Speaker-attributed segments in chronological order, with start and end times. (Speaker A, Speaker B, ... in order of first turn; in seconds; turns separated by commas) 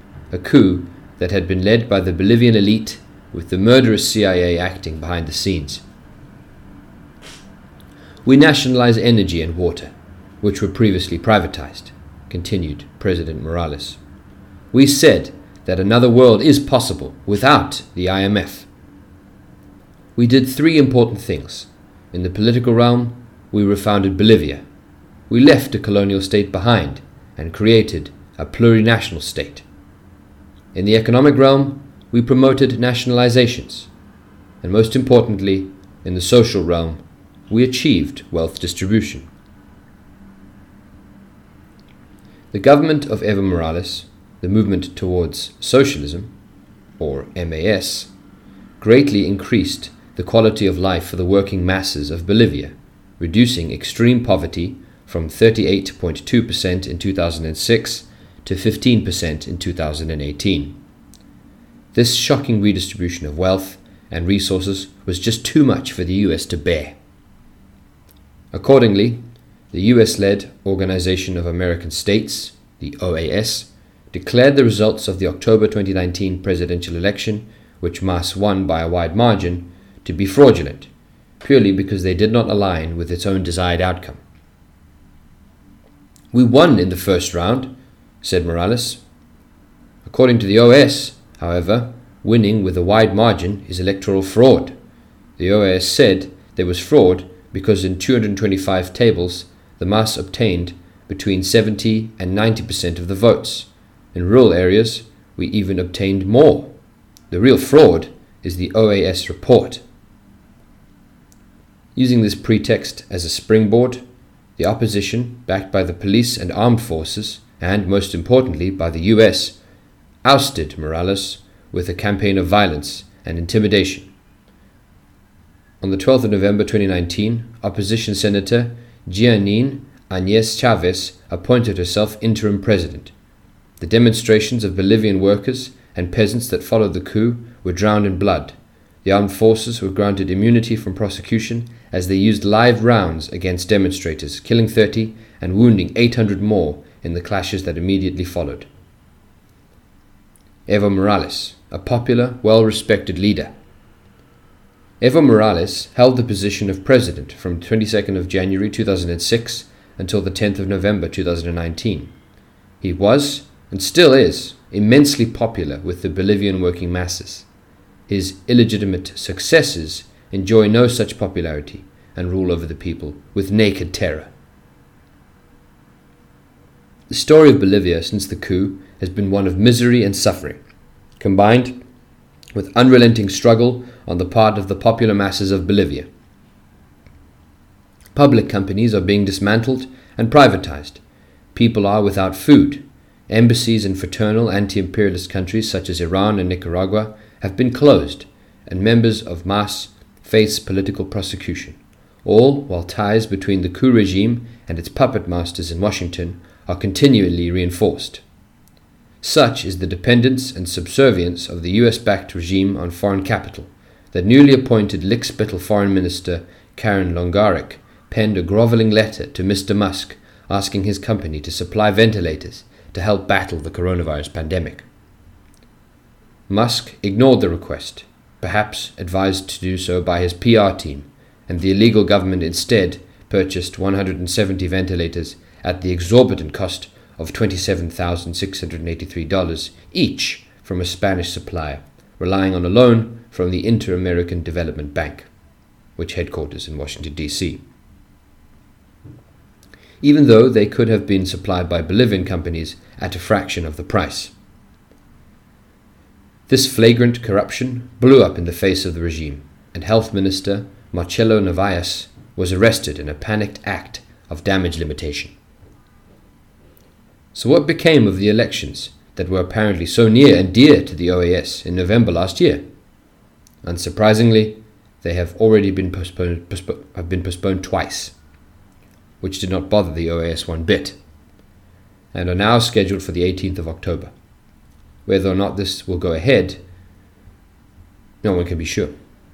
Speaker A: 0.3-5.8, Speaker A: 8.2-14.0, Speaker A: 14.7-18.7, Speaker A: 20.1-24.6, Speaker A: 25.3-29.6, Speaker A: 30.7-33.9, Speaker A: 34.6-39.3, Speaker A: 42.5-46.3, Speaker A: 47.0-48.1, Speaker A: 48.8-60.8, Speaker A: 61.9-67.0, Speaker A: 68.5-80.9, Speaker A: 81.4-84.2, Speaker A: 86.3-89.0, Speaker A: 90.0-94.8, Speaker A: 95.4-106.7, Speaker A: 107.3-109.8, Speaker A: 111.9-114.0, Speaker A: 114.6-119.6, Speaker A: 120.2-124.1, Speaker A: 125.8-133.1, Speaker A: 133.8-148.7, Speaker A: 150.7-153.5, Speaker A: 155.0-162.1, Speaker A: 162.8-167.5, Speaker A: 168.1-174.3, Speaker A: 177.1-180.6, Speaker A: 181.2-181.8, Speaker A: 182.5-186.1, Speaker A: 188.1-191.0, Speaker A: 191.5-208.2, Speaker A: 209.2-224.8, Speaker A: 226.5-245.3, Speaker A: 245.9-247.6, Speaker A: 250.0-254.3, Speaker A: 256.5-265.3, Speaker A: 267.3-272.6, Speaker A: 273.6-278.1, Speaker A: 279.2-281.0, Speaker A: 282.1-284.1, Speaker A: 285.1-286.6, Speaker A: 288.2-288.9